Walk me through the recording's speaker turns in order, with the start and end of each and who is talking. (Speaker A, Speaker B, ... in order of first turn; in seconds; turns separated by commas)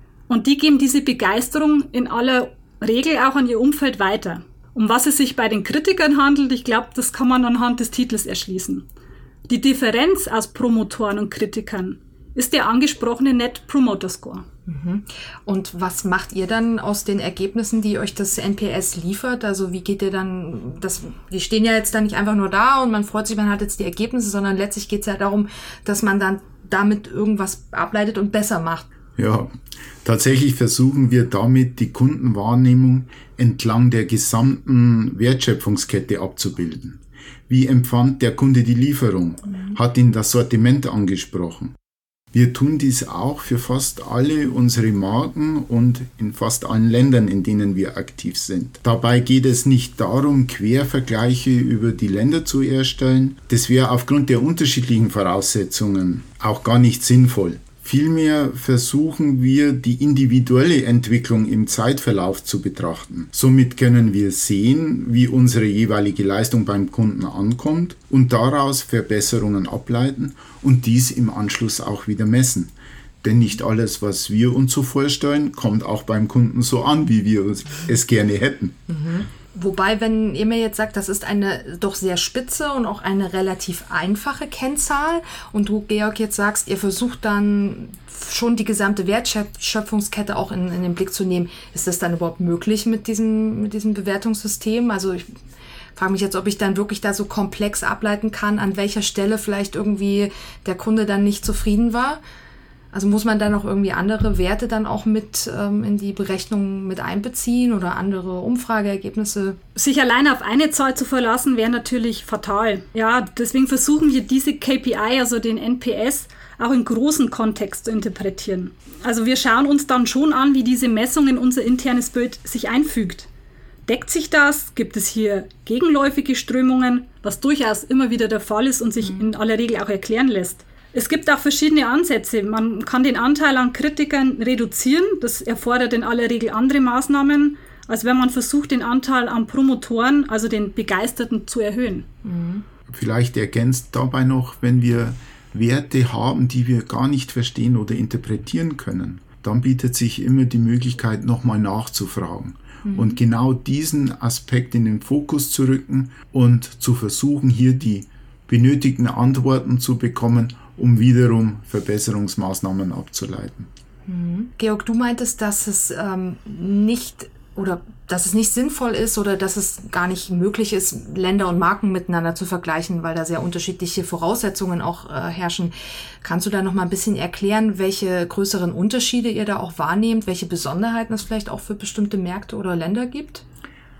Speaker A: 0.3-8.8, Speaker A: 9.5-14.4, Speaker B: 14.7-28.9, Speaker C: 29.2-41.7, Speaker C: 42.3-78.8, Speaker B: 78.9-95.3, Speaker B: 96.0-102.2, Speaker B: 102.9-109.6, Speaker A: 109.8-123.3, Speaker A: 123.8-142.1, Speaker B: 129.0-129.3, Speaker B: 142.2-142.6, Speaker C: 142.9-163.7, Speaker B: 152.8-153.2, Speaker B: 164.1-183.4